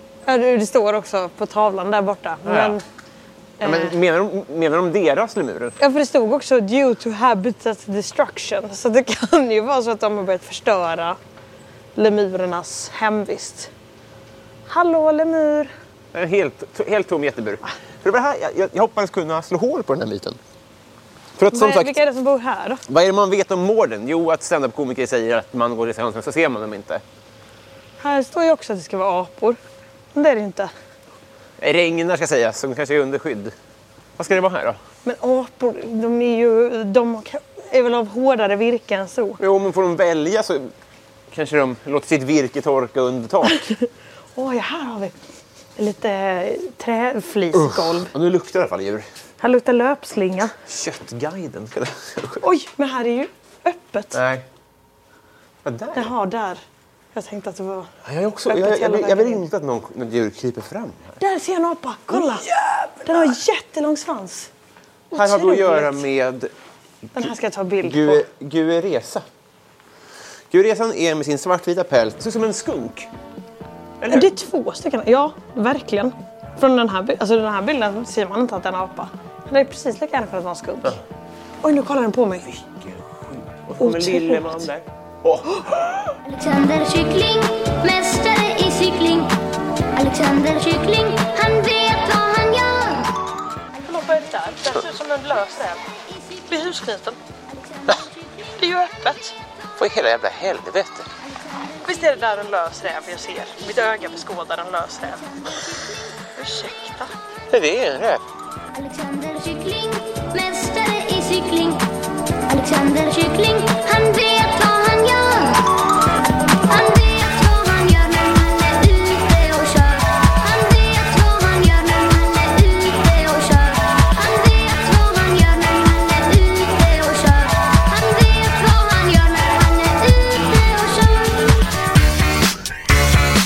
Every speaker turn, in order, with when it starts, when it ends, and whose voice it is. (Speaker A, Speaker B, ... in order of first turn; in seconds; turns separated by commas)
Speaker A: 0.2-2.8, Speaker B: 2.5-2.8, Speaker A: 3.6-3.9, Speaker B: 3.6-5.8, Speaker A: 5.8-11.2, Speaker A: 11.9-13.7, Speaker A: 14.7-15.7, Speaker B: 16.1-20.4, Speaker B: 21.4-22.0, Speaker A: 21.5-22.8, Speaker B: 22.9-27.0, Speaker A: 28.0-29.6, Speaker A: 30.1-30.7, Speaker B: 31.6-33.5, Speaker B: 34.2-34.8, Speaker A: 35.0-39.4, Speaker B: 39.4-40.7, Speaker B: 41.3-43.6, Speaker A: 44.4-45.1, Speaker A: 45.8-48.1, Speaker B: 47.5-49.0, Speaker A: 49.4-50.5, Speaker B: 50.7-52.4, Speaker A: 52.4-54.2, Speaker B: 54.1-54.4, Speaker B: 55.6-56.1, Speaker A: 55.9-56.6, Speaker A: 57.1-57.9, Speaker B: 58.0-61.2, Speaker A: 58.5-59.4, Speaker A: 61.2-62.5, Speaker B: 62.1-63.3, Speaker A: 63.0-64.5, Speaker A: 65.1-66.0, Speaker B: 65.1-66.5, Speaker A: 67.2-68.2, Speaker B: 67.8-69.2, Speaker B: 70.5-73.1, Speaker B: 74.0-74.3, Speaker A: 74.1-81.0, Speaker A: 81.6-82.5, Speaker B: 82.5-86.1, Speaker A: 83.8-84.6, Speaker C: 86.2-89.3, Speaker C: 90.0-93.1, Speaker A: 93.8-97.2, Speaker A: 98.6-99.3, Speaker B: 99.8-101.1, Speaker A: 101.8-105.2, Speaker A: 106.3-107.1, Speaker B: 107.5-108.2, Speaker C: 108.7-110.1, Speaker C: 110.7-111.8, Speaker C: 112.5-115.5, Speaker C: 116.7-120.0, Speaker C: 120.5-131.5